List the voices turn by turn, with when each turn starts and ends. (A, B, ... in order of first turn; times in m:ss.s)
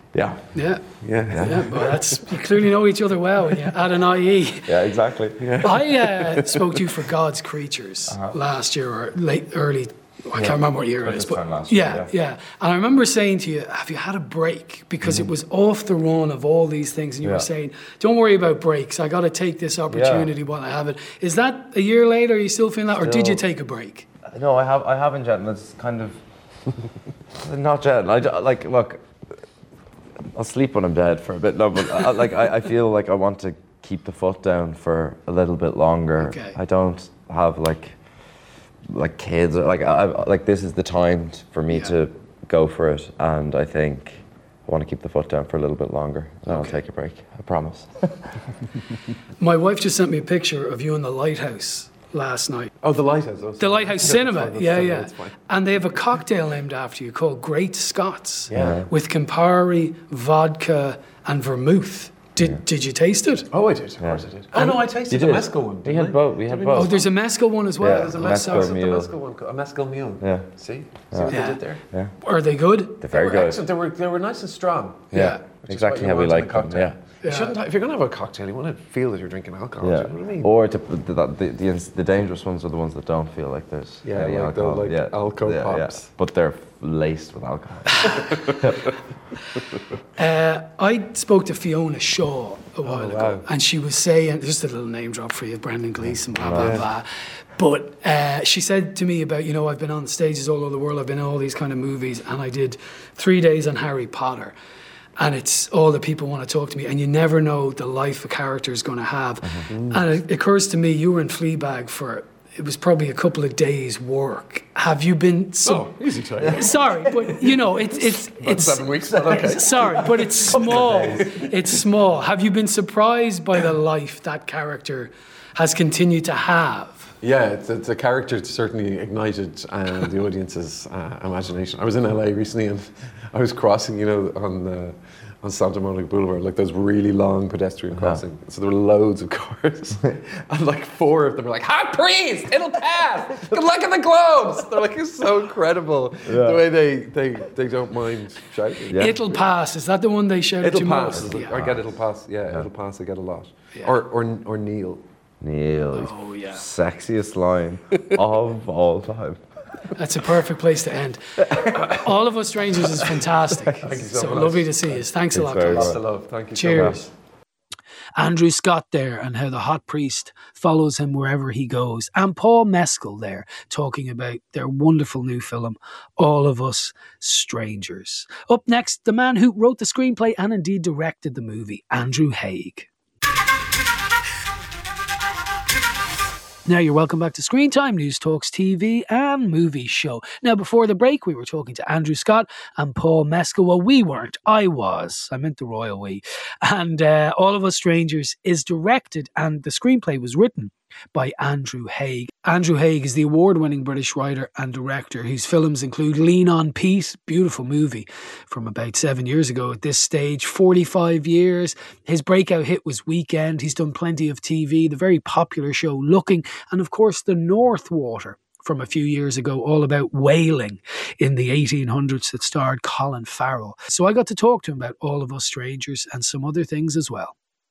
0:00.1-0:00.4 A
0:00.5-0:04.7 B
0:01.0-0:02.2 C
0:01.3-0:01.6 A
0:04.7-0:05.7 A
0:05.4-0:06.5 C
0:05.6-0:24.0 B
0:10.4-0:12.1 A
0:19.9-0:20.3 A
0:23.0-0:23.4 A
0:24.3-0:26.2 A
0:27.4-0:29.4 A
0:30.3-0:38.0 A
0:36.2-0:36.6 B
0:38.9-0:47.9 A
0:46.5-0:46.8 B
0:49.4-0:52.7 B
0:52.8-0:55.4 C
0:53.6-1:03.5 B
0:58.5-0:58.8 C
0:58.5-0:58.9 A
1:03.5-1:07.0 C
1:04.0-1:04.2 A
1:04.5-1:04.8 B
1:05.1-1:07.0 A
1:06.7-1:08.8 B
1:07.8-1:09.1 A
1:07.8-1:11.8 C
1:10.2-1:10.5 A
1:11.1-1:11.4 A
1:11.3-1:11.6 B
1:12.2-1:13.1 B
1:13.0-1:13.6 A
1:13.1-1:20.5 C
1:15.1-1:17.0 A
1:15.1-1:15.4 B
1:17.2-1:17.5 B
1:19.8-1:28.9 A
1:24.0-1:26.1 C
1:30.2-1:37.1 B
1:32.8-1:33.5 C
1:36.4-1:36.8 A
1:36.5-1:36.9 C
1:37.6-1:44.5 B
1:45.2-1:55.9 B
1:49.7-1:50.0 C
1:55.7-1:57.4 C
1:56.5-2:07.1 B
1:58.4-2:01.6 C
2:07.2-2:29.2 C
2:17.9-2:18.2 A
2:26.3-2:26.6 A
2:28.9-2:29.2 A
2:29.0-2:31.6 B
2:30.6-2:35.0 C
2:31.2-2:31.8 A
2:35.4-2:39.4 A
2:35.9-2:36.6 B
2:40.0-2:46.0 B
2:43.8-2:45.0 C
2:45.3-2:46.0 A
2:45.7-2:47.1 C
2:46.5-2:47.1 B
2:48.2-3:02.9 B
3:06.7-3:47.4 B